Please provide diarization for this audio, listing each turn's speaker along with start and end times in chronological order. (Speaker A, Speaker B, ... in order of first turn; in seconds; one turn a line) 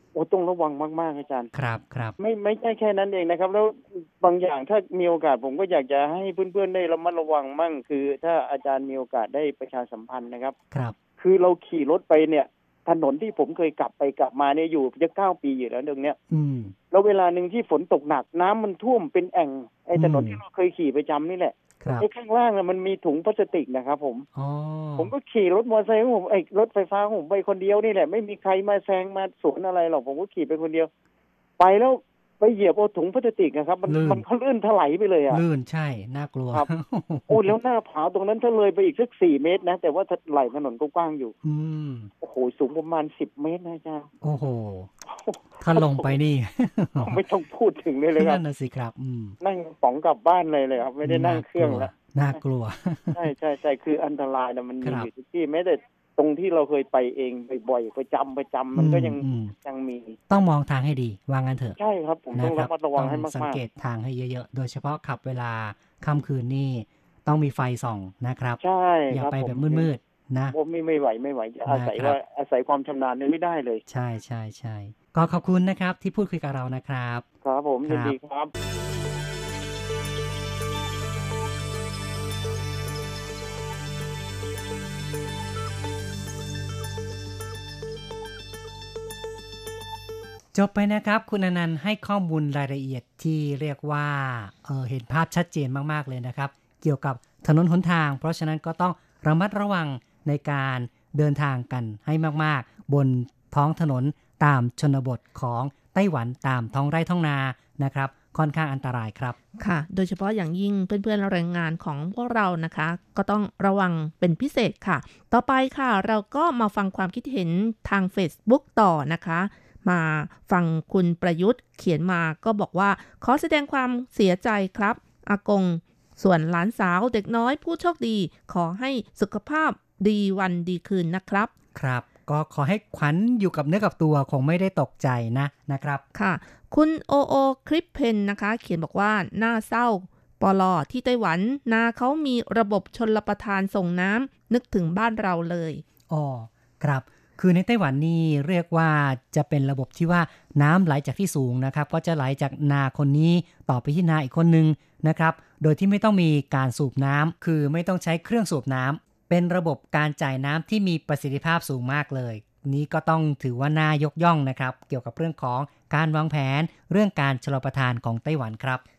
Speaker A: 0.1-1.5
Speaker B: 1.5-2.1
Speaker A: 2.2-10.5
Speaker A: 11.2-16.2
Speaker B: 16.3-16.7
Speaker A: 16.9-24.2
Speaker B: 19.9-20.4
Speaker B: 21.8-22.1
Speaker B: 24.3-25.1
Speaker A: 25.0-30.9
Speaker A: 31.6-35.4
Speaker B: 33.9-34.2
Speaker B: 35.3-37.5
Speaker A: 37.3-41.3
Speaker B: 41.4-42.1
Speaker A: 42.2-44.1
Speaker B: 44.2-44.9
Speaker A: 45.1-46.1
Speaker B: 45.6-47.2
Speaker A: 47.0-48.4
Speaker B: 48.2-49.4
Speaker A: 49.4-51.9
Speaker B: 51.0-53.2
Speaker A: 53.1-60.1
Speaker B: 54.8-55.1
Speaker B: 58.8-59.5
Speaker B: 60.3-61.8
Speaker A: 61.8-63.6
Speaker B: 62.3-68.6
Speaker A: 68.6-69.9
Speaker B: 69.1-70.5
Speaker A: 70.5-73.8
Speaker B: 71.7-72.2
Speaker B: 73.9-77.2
Speaker A: 77.4-78.5
Speaker B: 77.9-78.1
Speaker B: 90.5-109.4
Speaker C: 109.6-131.5
Speaker B: 131.7-136.0
Speaker C: 136.1-145.8
Speaker B: 146.1-168.8